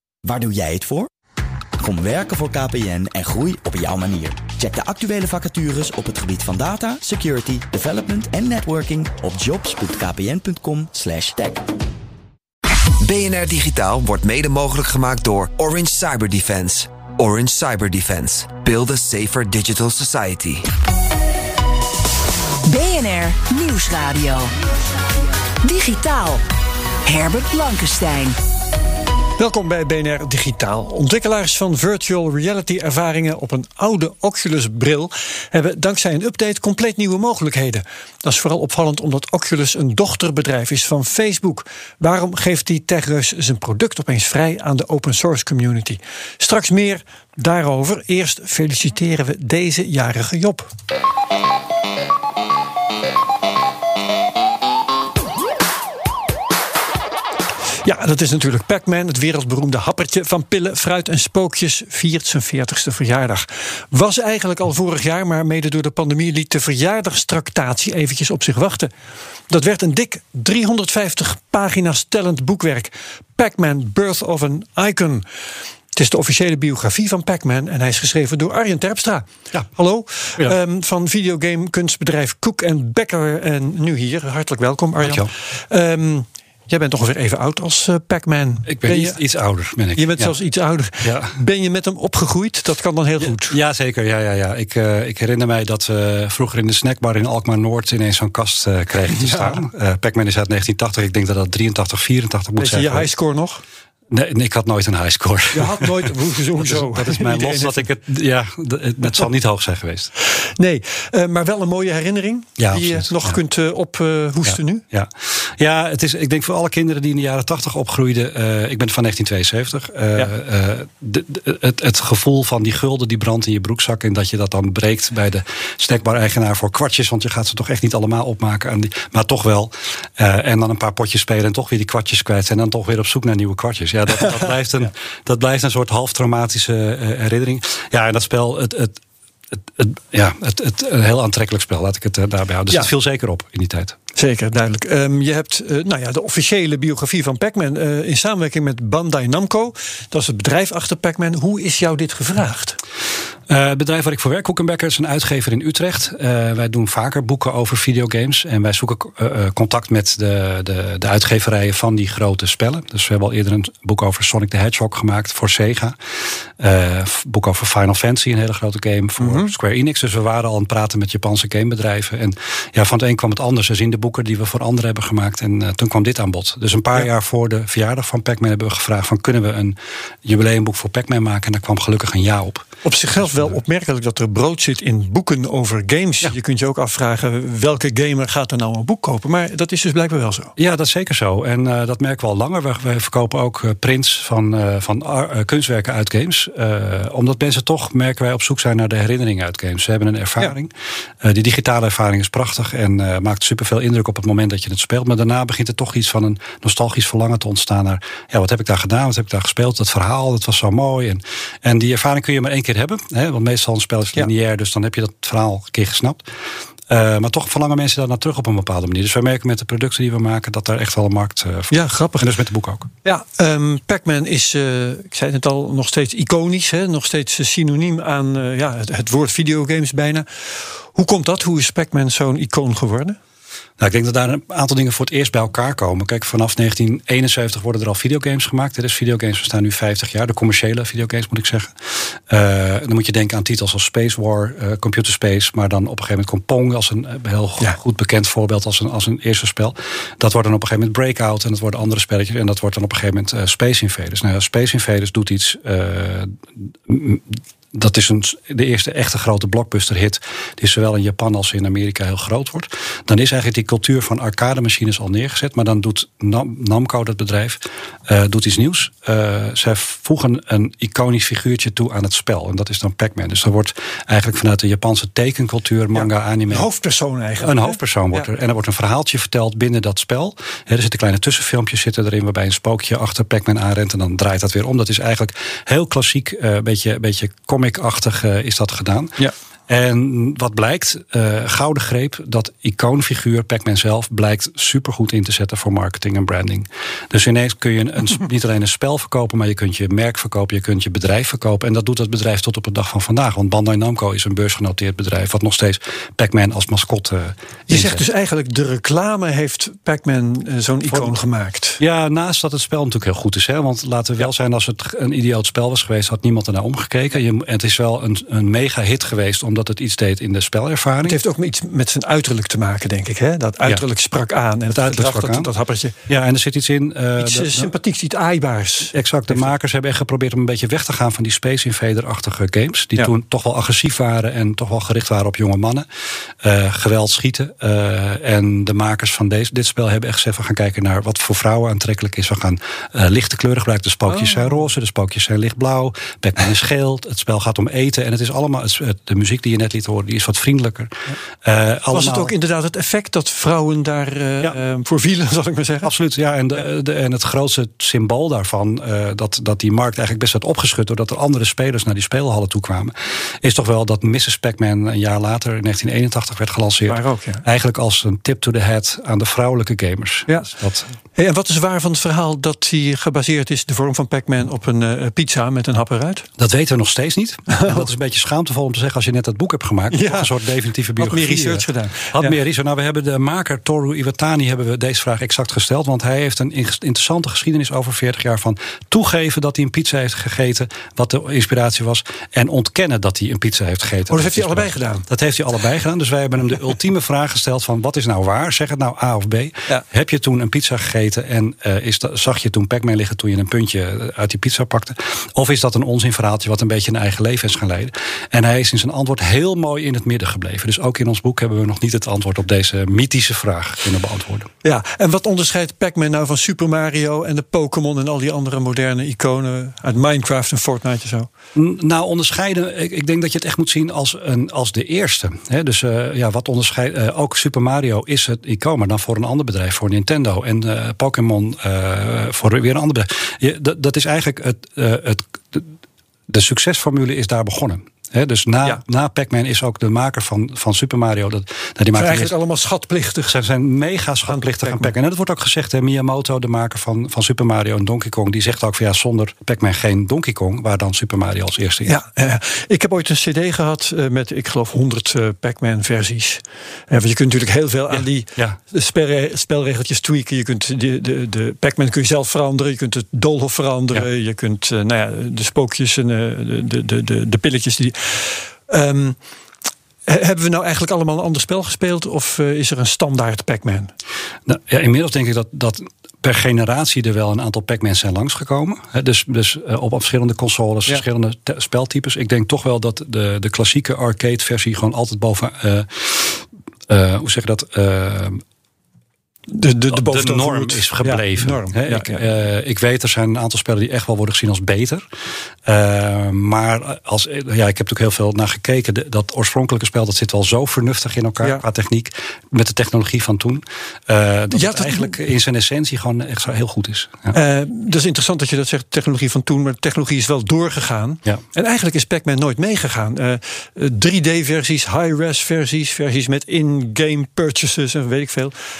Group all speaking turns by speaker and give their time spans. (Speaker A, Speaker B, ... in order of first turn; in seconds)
Speaker A: 0.2-1.1, 1.8-11.6
Speaker B: 13.0-20.6
Speaker C: 22.6-24.5, 25.6-26.4, 27.0-28.4
Speaker D: 29.4-50.7, 57.8-68.9, 69.5-75.2, 75.9-89.2, 89.9-93.6, 99.1-99.6, 102.6-103.6, 105.5-107.8, 110.4-114.8, 144.2-152.8, 169.2-169.5, 182.8-190.5, 221.7-222.3, 223.0-233.2, 275.9-278.3, 307.7-311.8, 321.1-325.9, 327.2-329.5, 344.1-344.6, 351.9-355.9, 366.9-367.4, 370.3-370.5, 371.1-376.3, 377.5-377.9, 379.9-380.3, 381.0-382.3, 394.1-395.1, 414.6-421.3, 441.9-443.4, 444.3-444.9, 451.9-469.2, 470.1-473.9, 489.5-492.2, 504.5-505.1, 507.3-518.5
Speaker E: 85.0-85.3, 88.7-90.3, 91.0-91.4, 93.2-103.1, 104.1-110.1, 112.6-113.4, 114.5-139.0, 139.5-144.0, 153.5-166.0, 166.6-183.6, 190.6-216.2, 216.9-222.9, 233.8-276.7, 277.4-308.0, 310.9-311.2, 311.8-321.2, 324.7-325.5, 326.1-327.7, 328.9-335.9, 336.4-352.3, 355.8-370.9, 376.4-414.5, 421.5-435.7, 436.3-442.3, 443.3-452.0, 457.9-458.6, 474.4-488.4, 489.9-495.1, 495.6-507.4